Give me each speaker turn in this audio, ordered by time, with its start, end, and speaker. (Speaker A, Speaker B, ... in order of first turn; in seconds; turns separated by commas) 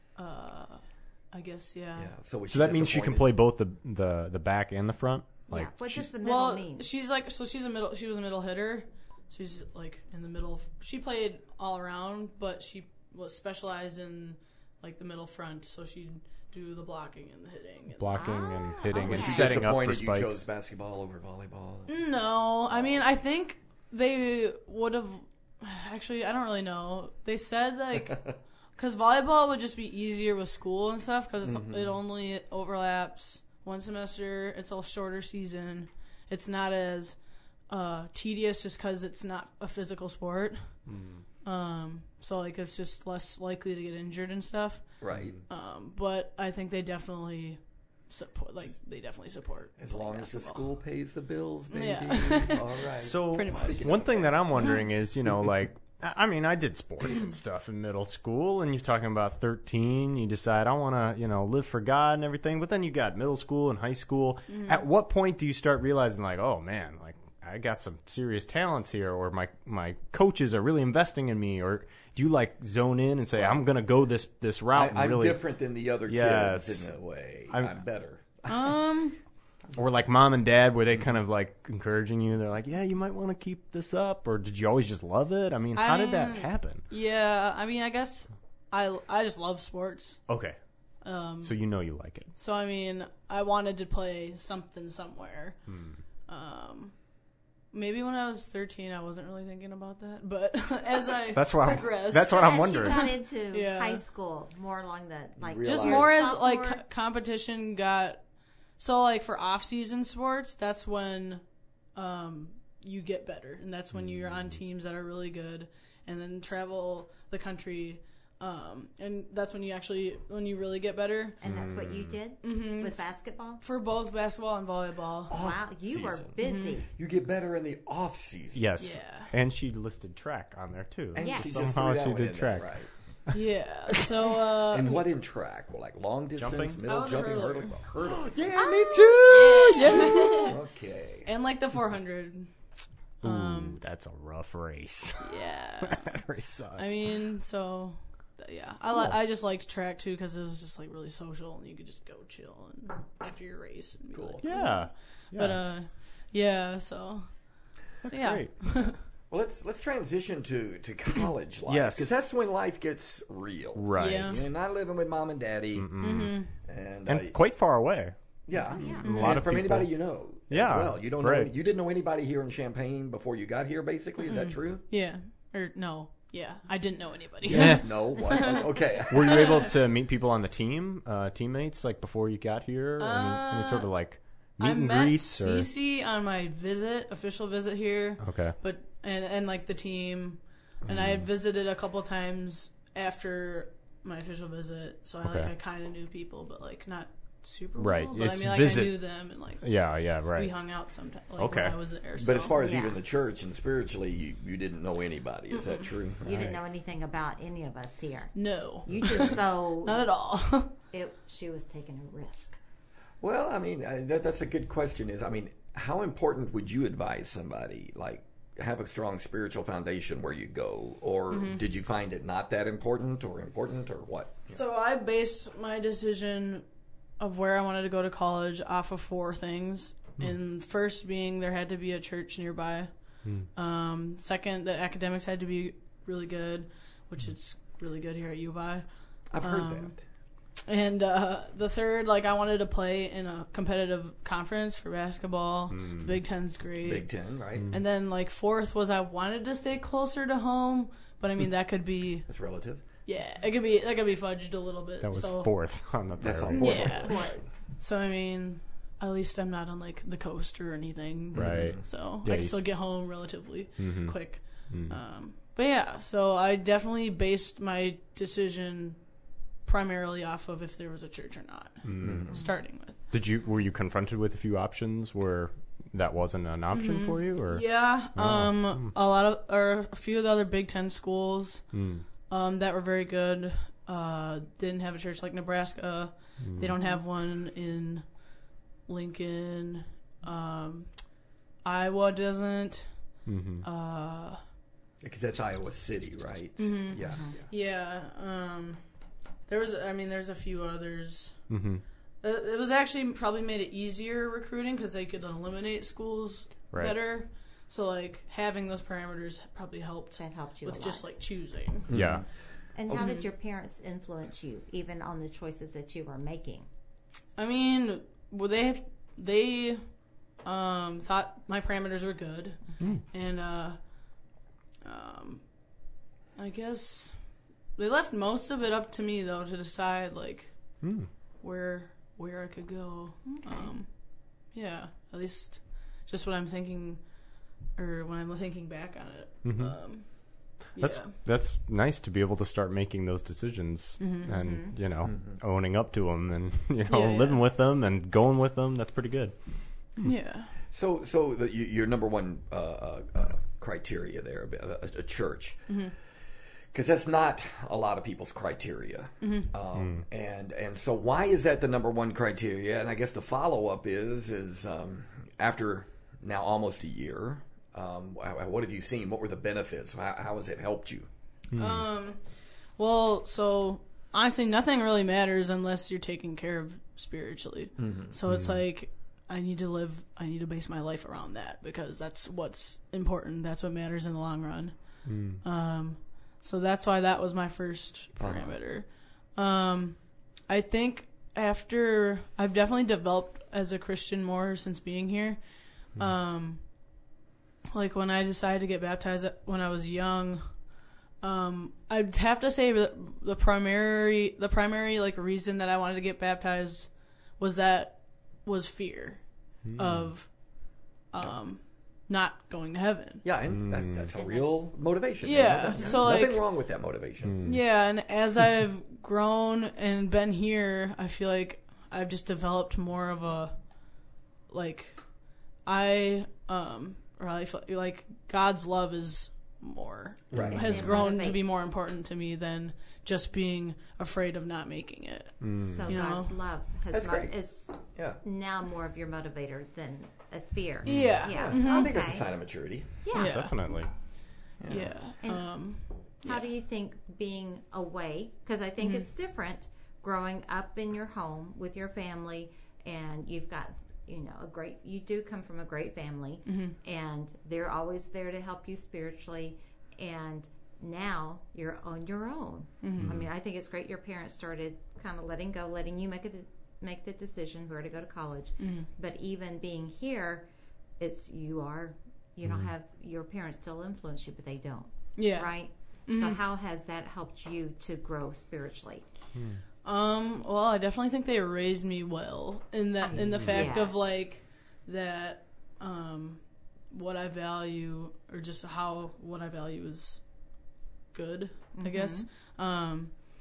Speaker A: 0.2-2.1, Speaker B: 1.9-3.3, Speaker C: 2.5-6.0, Speaker D: 5.5-6.9, Speaker A: 6.2-18.3, Speaker C: 18.0-20.3, Speaker D: 18.1-19.6, Speaker B: 18.9-21.9, Speaker A: 21.9-28.2, Speaker A: 28.8-37.2, Speaker B: 31.4-32.0, Speaker A: 37.7-40.6, Speaker C: 40.9-41.2, Speaker A: 41.4-44.9, Speaker B: 45.0-45.4, Speaker A: 45.5-50.7, Speaker B: 49.8-54.6, Speaker A: 51.7-52.8, Speaker C: 53.0-75.4, Speaker A: 53.3-53.9, Speaker A: 64.5-64.8, Speaker B: 73.3-73.6, Speaker B: 74.7-78.5, Speaker C: 76.1-76.9, Speaker C: 77.5-77.8, Speaker A: 78.5-79.2, Speaker C: 79.7-86.8, Speaker A: 85.8-90.2, Speaker C: 90.3-90.6, Speaker A: 91.0-91.5, Speaker C: 91.4-92.3, Speaker A: 92.3-95.6, Speaker C: 95.7-96.0, Speaker A: 96.3-96.9, Speaker A: 97.7-104.0, Speaker C: 101.3-103.0, Speaker D: 102.1-106.8, Speaker B: 105.4-106.2, Speaker A: 105.6-108.2, Speaker A: 108.8-111.4, Speaker A: 111.9-121.4, Speaker C: 113.9-114.6, Speaker D: 121.4-123.6, Speaker C: 121.4-122.2, Speaker A: 122.4-123.0, Speaker A: 123.6-125.3, Speaker B: 125.3-126.4, Speaker D: 125.3-126.9, Speaker A: 126.4-126.8, Speaker B: 126.9-128.6, Speaker C: 128.5-132.7, Speaker A: 128.8-129.3, Speaker B: 131.1-132.9, Speaker D: 131.2-131.8, Speaker A: 133.3-135.1, Speaker B: 134.7-141.3, Speaker C: 136.4-136.8, Speaker A: 136.8-137.9, Speaker D: 138.5-140.5, Speaker A: 139.2-140.6, Speaker A: 141.2-142.5, Speaker A: 143.2-143.8, Speaker C: 143.2-147.0, Speaker A: 145.2-146.2, Speaker A: 146.8-157.3, Speaker B: 154.1-154.4, Speaker C: 154.4-155.6, Speaker C: 158.0-158.5, Speaker A: 158.0-159.0, Speaker B: 159.3-167.3, Speaker C: 161.7-162.1, Speaker C: 163.8-164.4, Speaker A: 164.0-164.4, Speaker C: 165.8-166.4, Speaker A: 166.0-166.5, Speaker C: 167.1-168.2, Speaker B: 168.5-174.8, Speaker D: 168.7-169.2, Speaker A: 168.8-169.4, Speaker C: 169.0-169.9, Speaker C: 170.5-171.5, Speaker A: 174.3-179.7, Speaker B: 177.4-179.7, Speaker C: 177.5-178.0, Speaker C: 179.1-185.7, Speaker A: 183.0-183.9, Speaker A: 184.6-202.6, Speaker C: 188.2-188.6, Speaker C: 190.8-191.2, Speaker C: 195.2-195.5, Speaker C: 197.8-199.0, Speaker C: 199.6-200.5, Speaker C: 201.4-201.8, Speaker B: 202.2-206.6, Speaker D: 202.6-203.0, Speaker A: 205.5-205.9, Speaker D: 206.2-210.1, Speaker A: 208.3-210.7, Speaker B: 208.9-209.3, Speaker D: 210.9-212.6, Speaker B: 213.2-224.5, Speaker A: 221.3-221.6, Speaker A: 224.5-226.6, Speaker A: 227.2-232.9, Speaker A: 233.5-238.8, Speaker B: 239.3-240.0, Speaker A: 239.4-240.0, Speaker A: 240.6-247.1, Speaker C: 245.7-246.1, Speaker B: 246.8-247.7, Speaker A: 247.7-252.3, Speaker B: 252.3-252.8, Speaker A: 253.1-255.5, Speaker C: 255.0-257.0, Speaker B: 256.2-257.4, Speaker A: 256.6-269.0, Speaker D: 256.9-257.3, Speaker B: 261.3-261.8, Speaker C: 261.3-262.6, Speaker C: 263.8-264.9, Speaker A: 269.6-273.0, Speaker C: 271.8-272.4, Speaker B: 272.0-272.4, Speaker C: 273.1-278.9, Speaker A: 276.7-281.7, Speaker C: 281.7-282.1, Speaker A: 282.3-288.1, Speaker C: 286.4-286.7, Speaker A: 288.9-290.9, Speaker A: 291.6-292.9, Speaker C: 293.2-293.6, Speaker A: 293.6-294.4, Speaker B: 295.0-297.4, Speaker A: 296.6-298.8, Speaker D: 297.1-297.3, Speaker A: 299.5-301.4, Speaker C: 301.5-301.8, Speaker A: 302.2-311.9, Speaker D: 310.2-311.1, Speaker B: 311.9-312.2, Speaker C: 311.9-312.2, Speaker D: 312.7-316.7, Speaker A: 312.9-313.2, Speaker A: 317.4-319.8, Speaker A: 320.4-323.8, Speaker A: 324.8-325.4, Speaker A: 326.4-327.1, Speaker A: 327.8-330.5, Speaker C: 330.8-331.1, Speaker A: 331.4-333.9, Speaker D: 333.2-333.7, Speaker A: 334.5-337.0, Speaker A: 337.8-341.1, Speaker C: 339.4-339.8, Speaker C: 340.8-349.3, Speaker A: 344.0-344.3, Speaker D: 344.3-344.7, Speaker B: 345.0-345.4, Speaker A: 346.9-347.4, Speaker A: 350.0-350.5, Speaker B: 350.7-355.6, Speaker A: 355.7-355.9, Speaker B: 356.7-371.1, Speaker A: 359.2-359.5, Speaker C: 359.8-360.0, Speaker C: 371.5-371.8, Speaker A: 371.5-372.2, Speaker A: 372.8-395.4, Speaker B: 377.8-378.1, Speaker C: 378.3-378.6, Speaker C: 385.0-385.4, Speaker B: 388.2-388.5, Speaker A: 395.9-396.6, Speaker A: 397.7-400.5, Speaker A: 401.2-409.2, Speaker C: 409.6-410.1, Speaker A: 409.7-410.3, Speaker A: 411.1-413.2, Speaker B: 413.2-417.4, Speaker C: 413.5-414.1, Speaker D: 414.1-414.6, Speaker A: 415.2-416.4, Speaker D: 415.7-416.0, Speaker C: 417.2-417.6, Speaker A: 417.4-423.6, Speaker A: 424.5-425.0, Speaker A: 425.6-436.3, Speaker B: 430.3-431.0, Speaker D: 430.3-431.4, Speaker C: 435.4-435.9, Speaker D: 435.7-442.3, Speaker B: 436.9-437.4, Speaker B: 437.9-438.2, Speaker C: 440.8-441.2, Speaker A: 440.8-441.9, Speaker B: 441.2-442.9, Speaker D: 443.0-443.7, Speaker A: 443.1-443.6, Speaker C: 443.1-443.9, Speaker B: 444.6-444.9, Speaker A: 444.7-446.4, Speaker D: 445.2-445.6, Speaker D: 446.2-470.5, Speaker A: 448.8-449.1, Speaker A: 456.4-456.8, Speaker A: 462.8-463.1, Speaker C: 463.0-463.3, Speaker A: 468.6-468.9, Speaker D: 471.0-479.0, Speaker C: 472.4-472.7, Speaker A: 475.2-475.5, Speaker A: 476.1-476.4, Speaker C: 479.3-479.6, Speaker A: 479.8-490.2, Speaker D: 483.0-484.1, Speaker C: 483.3-483.6, Speaker A: 491.1-493.1, Speaker D: 491.7-492.3